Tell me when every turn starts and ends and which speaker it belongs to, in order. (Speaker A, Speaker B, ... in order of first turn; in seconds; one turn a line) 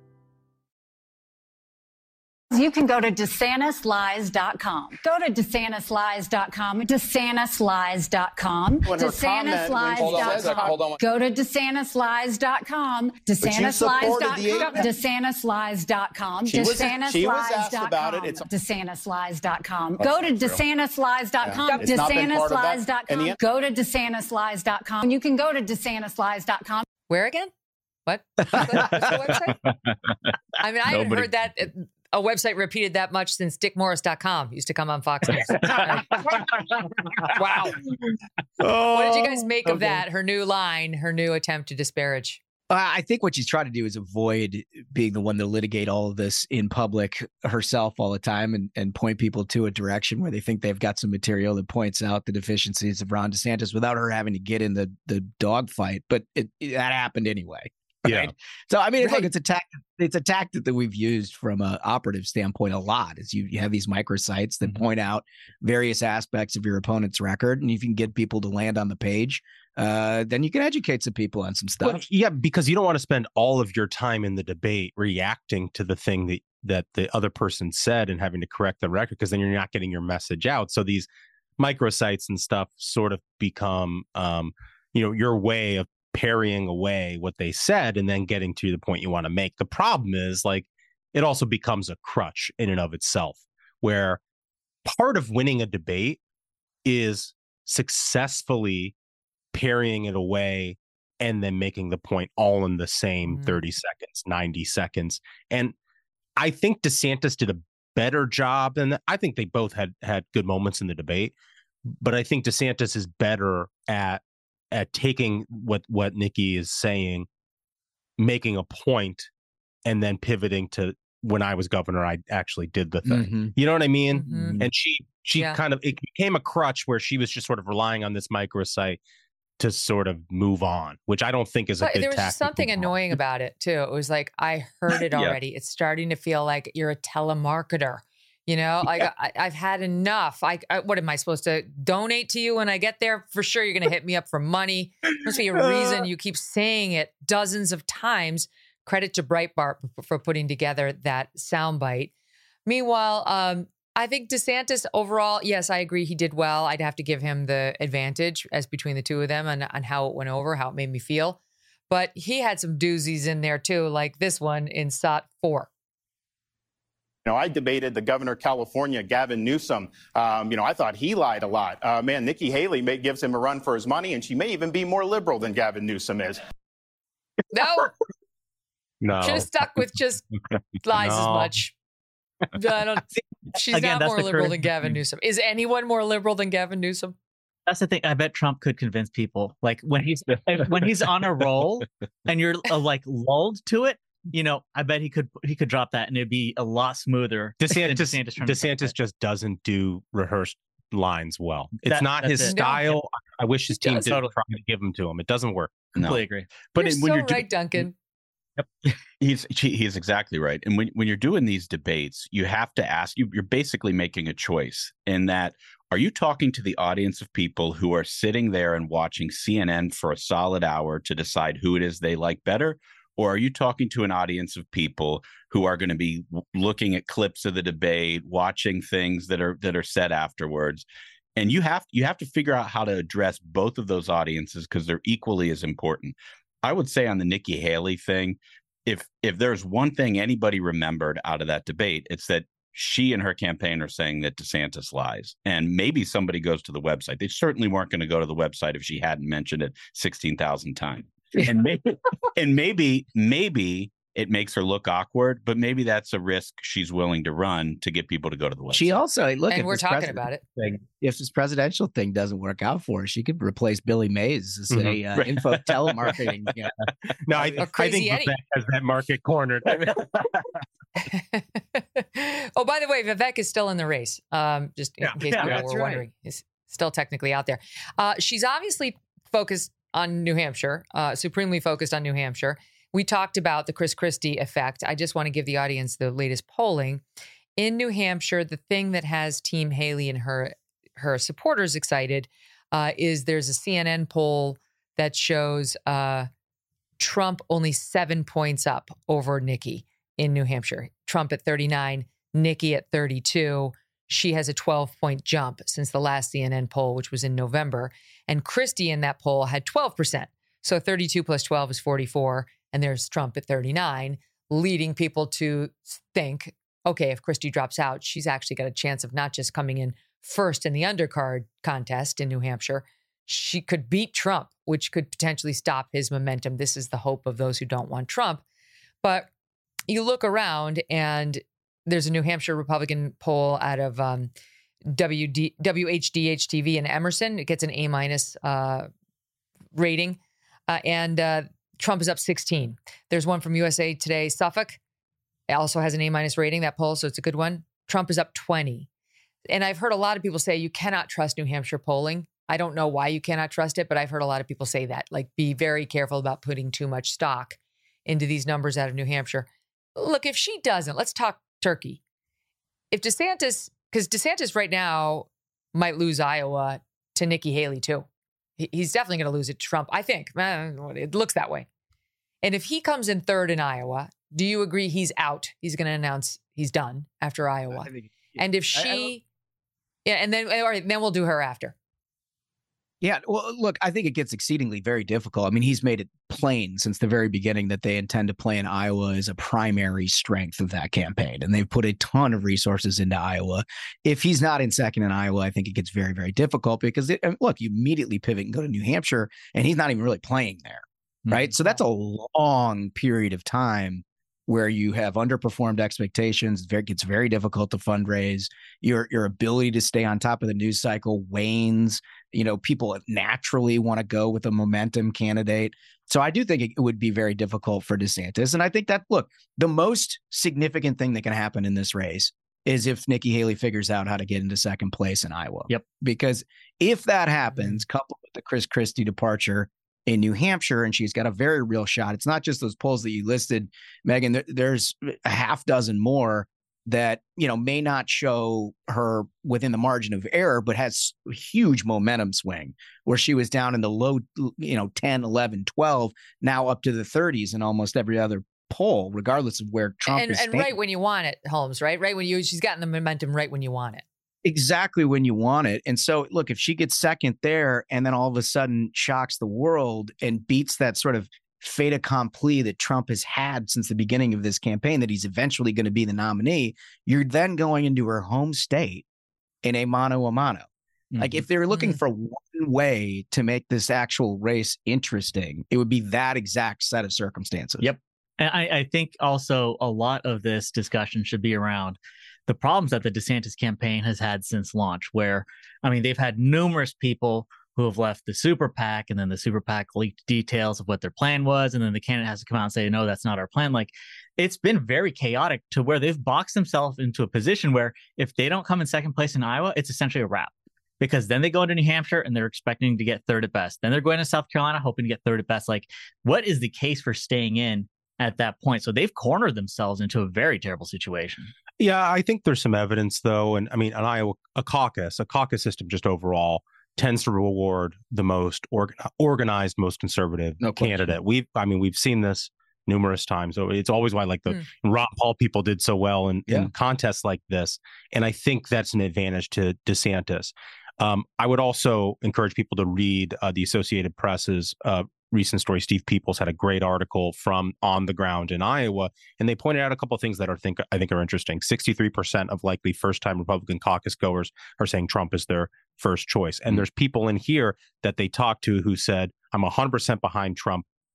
Speaker A: 2.5-26.9
Speaker B: 8.8-10.9
Speaker B: 13.8-14.7
Speaker B: 16.4-18.4
Speaker B: 21.5-23.3
Speaker C: 27.1-27.5
Speaker C: 28.1-29.6
Speaker C: 30.6-36.4
Speaker D: 30.9-31.3
Speaker C: 37.4-37.7
Speaker E: 38.6-39.4
Speaker C: 38.9-42.4
Speaker F: 42.7-72.0
Speaker E: 58.0-58.3
Speaker E: 71.8-81.1
Speaker E: 81.6-94.2
Speaker E: 94.8-96.2
Speaker E: 96.8-98.9
Speaker E: 99.5-105.7
Speaker C: 103.2-103.6
Speaker E: 106.4-111.3
Speaker E: 112.0-117.3
Speaker E: 118.2-119.3
Speaker E: 119.8-129.0
Speaker F: 123.0-123.5
Speaker C: 124.1-124.6
Speaker F: 124.4-124.7
Speaker C: 125.3-125.6
Speaker E: 129.6-132.9
Speaker C: 131.8-152.1
Speaker C: 152.7-161.4
Speaker C: 161.9-165.7
Speaker B: 167.2-176.4
Speaker C: 177.5-177.9
Speaker E: 179.0-179.4
Speaker C: 179.2-180.2
Speaker C: 180.8-181.7
Speaker E: 180.9-181.5
Speaker C: 182.6-187.1
Speaker G: 183.7-184.7
Speaker G: 187.7-198.9
Speaker E: 197.6-205.9
Speaker G: 201.8-202.6
Speaker C: 202.4-202.9
Speaker C: 203.7-204.1
Speaker G: 204.1-204.3
Speaker D: 205.9-206.2
Speaker G: 205.9-206.5
Speaker D: 206.7-207.5
Speaker C: 206.8-207.9
Speaker D: 209.2-230.8
Speaker D: 231.3-251.2
Speaker D: 252.3-258.9
Speaker F: 258.7-266.7
Speaker C: 259.5-260.4
Speaker E: 264.7-265.0
Speaker D: 265.1-265.4
Speaker E: 267.3-270.0
Speaker F: 267.3-267.6
Speaker C: 267.6-268.4
Speaker C: 271.1-287.0
Speaker G: 275.2-276.0
Speaker C: 287.6-296.3
Speaker C: 297.0-328.4
Speaker C: 329.0-329.3
Speaker C: 329.9-334.3
Speaker C: 334.9-338.9
Speaker C: 339.7-344.8
Speaker C: 345.5-348.9
Speaker C: 349.5-362.0
Speaker C: 362.9-368.1
Speaker C: 368.6-371.7
Speaker C: 372.4-379.2
Speaker F: 377.7-379.1
Speaker C: 380.1-381.7
Speaker F: 383.0-450.7
Speaker G: 401.2-401.5
Speaker C: 450.1-454.0
Speaker F: 454.4-469.0
Speaker F: 469.6-470.7
Speaker G: 471.1-471.4
Speaker F: 471.2-477.9
Speaker C: 471.7-472.0
Speaker G: 477.8-511.5
Speaker E: 511.8-550.8
Speaker F: 520.6-521.1